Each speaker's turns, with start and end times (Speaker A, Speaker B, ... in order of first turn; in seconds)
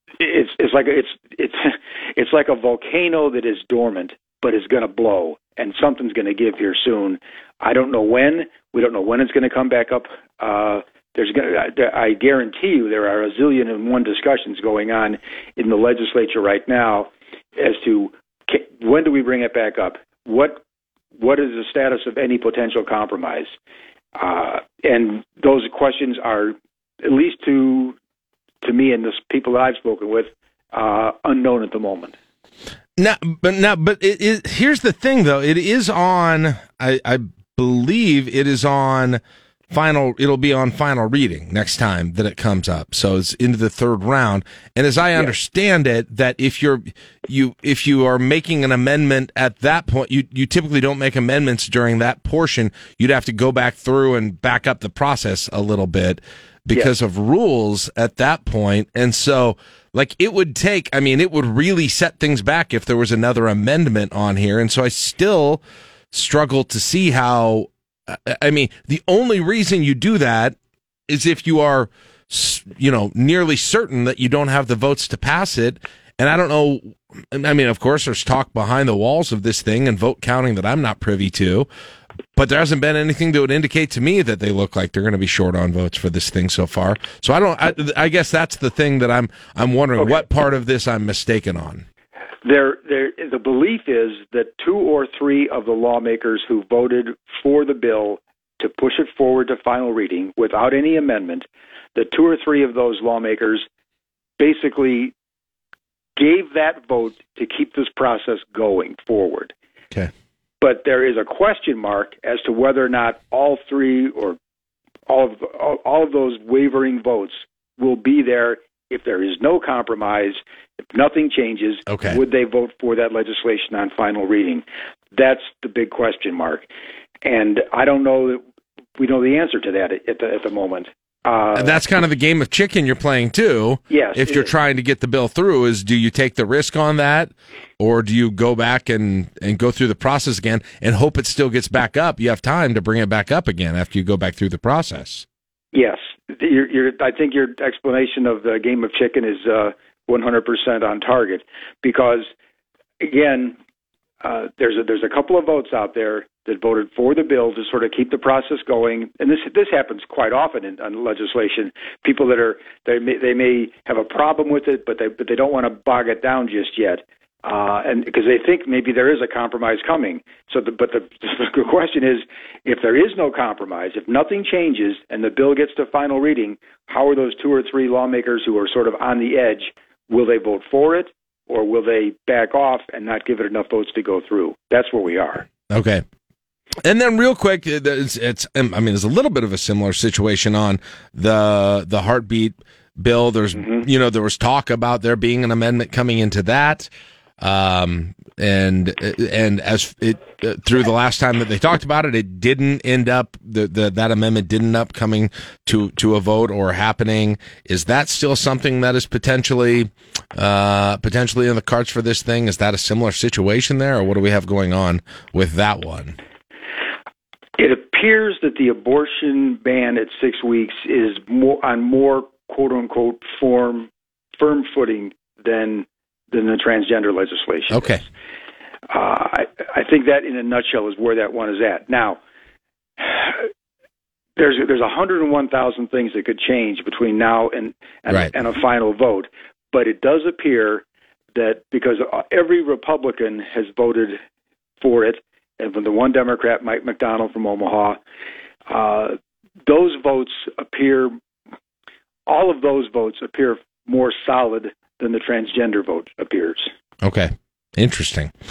Speaker A: 0.2-20.6, 21.2-23.5, 24.1-28.0, 28.6-32.1, 92.4-103.7, 104.4-105.1, 106.2-109.5, 110.6-114.4, 115.1-120.4, 120.9-126.7, 127.2-128.4, 129.0-131.8, 133.9-134.5, 145.7-152.3, 153.0-153.6, 154.2-185.5, 217.6-227.9, 228.9-232.2, 233.0-233.4, 234.4-240.8, 241.3-244.2, 244.8-248.0, 248.7-251.1, 252.3-256.7
Speaker B: 33.0-70.5, 71.1-81.7, 82.3-91.8, 121.9-122.2, 131.5-145.2, 185.7-186.0, 186.8-196.9, 197.4-216.2, 227.7-228.0, 238.1-238.4, 257.0-258.3